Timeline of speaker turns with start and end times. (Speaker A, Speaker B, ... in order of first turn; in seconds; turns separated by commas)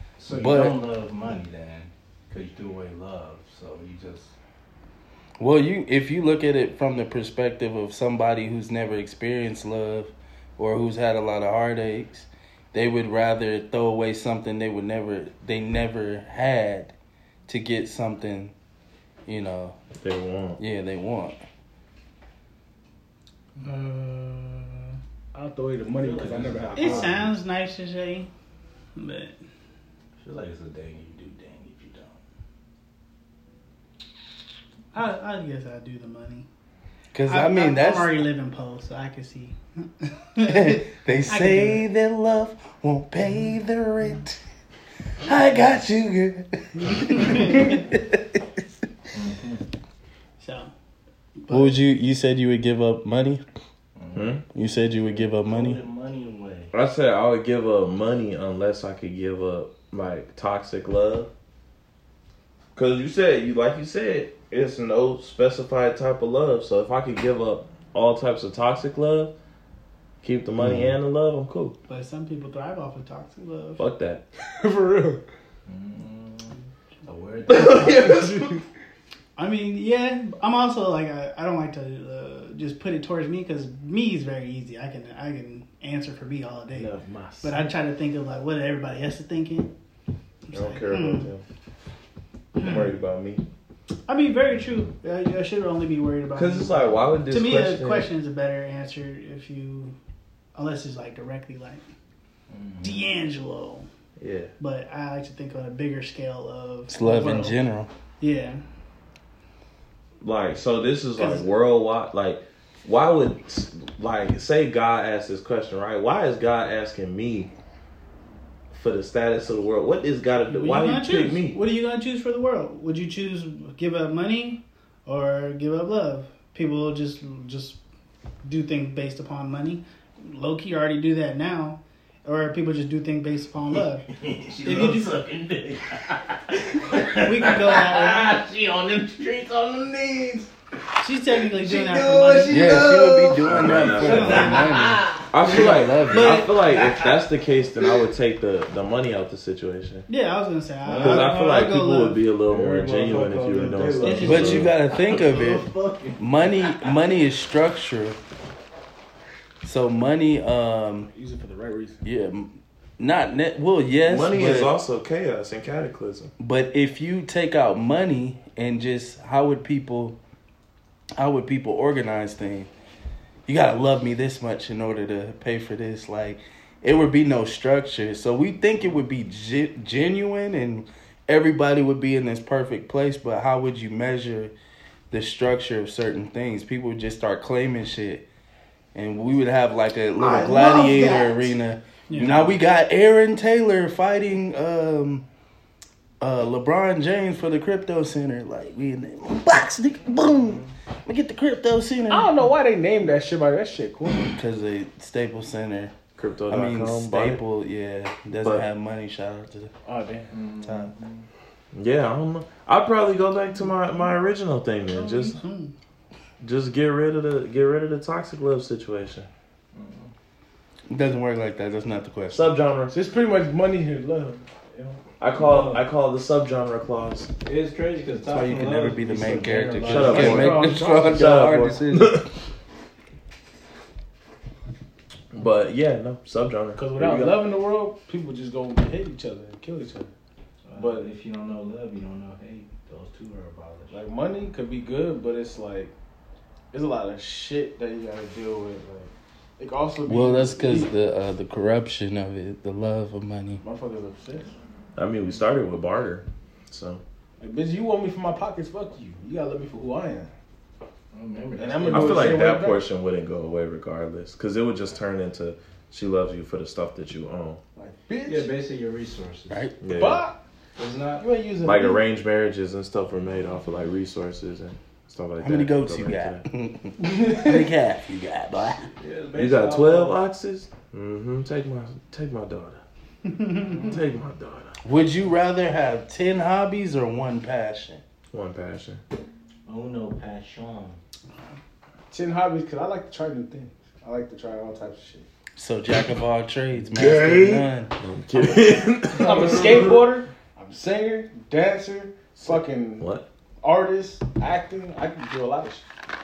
Speaker A: 0.2-4.3, Speaker B: 0.3-0.8, Speaker B: 5.4-16.9, Speaker B: 17.5-18.5, Speaker B: 19.3-19.8, Speaker C: 20.0-20.6, Speaker B: 20.6-21.4, Speaker D: 23.6-27.2, Speaker A: 25.9-27.4, Speaker E: 26.8-28.3, Speaker E: 29.0-29.4, Speaker A: 30.2-32.2, Speaker E: 34.9-36.5, Speaker B: 37.1-38.2, Speaker E: 37.3-41.8, Speaker B: 40.4-44.4, Speaker B: 45.2-48.4, Speaker E: 46.9-47.8, Speaker A: 49.1-49.6, Speaker E: 50.4-50.7, Speaker E: 51.4-51.8, Speaker B: 51.5-53.4, Speaker A: 54.0-54.4, Speaker C: 54.1-54.4, Speaker B: 54.5-55.8, Speaker A: 55.1-56.7, Speaker C: 56.7-61.3, Speaker C: 62.8-69.3, Speaker C: 70.2-71.8, Speaker B: 70.6-70.9, Speaker E: 71.9-73.8, Speaker C: 73.8-74.2, Speaker D: 74.6-75.2, Speaker A: 75.7-78.2, Speaker C: 77.5-78.6, Speaker E: 79.4-89.7, Speaker C: 86.8-87.2, Speaker D: 87.0-87.6, Speaker E: 90.5-91.3, Speaker C: 90.5-91.4, Speaker C: 92.6-93.4, Speaker E: 92.6-92.9, Speaker E: 94.1-100.0, Speaker C: 96.3-98.1, Speaker E: 100.5-101.9, Speaker A: 102.5-103.1, Speaker E: 102.8-103.9, Speaker C: 104.2-104.5, Speaker E: 104.6-107.6, Speaker B: 106.9-107.9, Speaker E: 108.2-108.6, Speaker C: 110.2-117.5, Speaker E: 111.2-111.5, Speaker C: 118.7-121.6, Speaker E: 120.5-127.8, Speaker E: 128.4-134.1, Speaker A: 134.1-140.5, Speaker E: 134.6-135.1, Speaker E: 137.0-138.4, Speaker E: 141.0-143.0, Speaker A: 141.4-145.7, Speaker B: 142.5-146.5, Speaker C: 143.2-144.6, Speaker E: 144.0-144.8, Speaker C: 145.3-150.1, Speaker E: 145.5-146.5, Speaker A: 146.6-147.3, Speaker E: 150.1-152.2, Speaker A: 150.9-151.3, Speaker C: 150.9-154.7, Speaker A: 152.5-157.0, Speaker E: 154.0-154.7, Speaker B: 154.2-158.2, Speaker B: 159.6-161.1, Speaker D: 161.1-162.1, Speaker B: 162.0-164.7, Speaker C: 164.1-166.3, Speaker B: 166.4-170.2, Speaker B: 171.2-172.7, Speaker B: 173.5-184.5, Speaker B: 185.1-188.2, Speaker B: 188.9-195.2, Speaker A: 190.2-191.5, Speaker E: 192.1-192.4, Speaker B: 196.2-202.3, Speaker D: 202.1-204.4, Speaker B: 204.3-205.9, Speaker C: 206.2-207.4, Speaker B: 206.5-209.7, Speaker C: 208.4-208.7, Speaker D: 209.8-210.4, Speaker A: 210.3-211.3, Speaker C: 211.7-215.4, Speaker E: 214.9-215.7, Speaker C: 216.4-219.3, Speaker A: 219.7-220.1, Speaker B: 220.9-222.5, Speaker C: 222.3-223.0, Speaker D: 222.9-225.0, Speaker C: 225.2-227.3, Speaker A: 225.3-225.8, Speaker A: 227.4-230.6, Speaker B: 228.3-232.2, Speaker C: 229.8-232.3, Speaker D: 229.9-231.2, Speaker C: 235.3-237.5, Speaker D: 236.8-240.1, Speaker A: 240.7-244.0, Speaker D: 240.8-241.1, Speaker D: 243.9-245.9, Speaker D: 246.7-250.9, Speaker B: 250.1-253.6, Speaker D: 253.6-254.5, Speaker C: 255.0-257.0, Speaker D: 257.4-260.3, Speaker A: 261.1-262.4, Speaker D: 261.6-262.8, Speaker C: 261.9-267.6, Speaker D: 267.8-268.5, Speaker A: 268.2-269.6, Speaker B: 269.5-269.8, Speaker C: 269.8-270.2, Speaker D: 269.9-270.4, Speaker A: 270.8-271.2, Speaker D: 271.2-272.0, Speaker C: 271.6-276.4, Speaker B: 275.4-278.9, Speaker D: 277.0-277.7, Speaker A: 279.0-280.2, Speaker C: 279.4-282.8, Speaker E: 283.2-283.9, Speaker C: 283.6-284.8, Speaker B: 284.8-288.0, Speaker C: 288.3-289.0, Speaker A: 289.7-291.0, Speaker D: 292.1-295.3, Speaker B: 295.6-297.9, Speaker C: 296.9-300.0, Speaker D: 299.1-303.1, Speaker C: 302.4-303.3, Speaker D: 303.6-305.9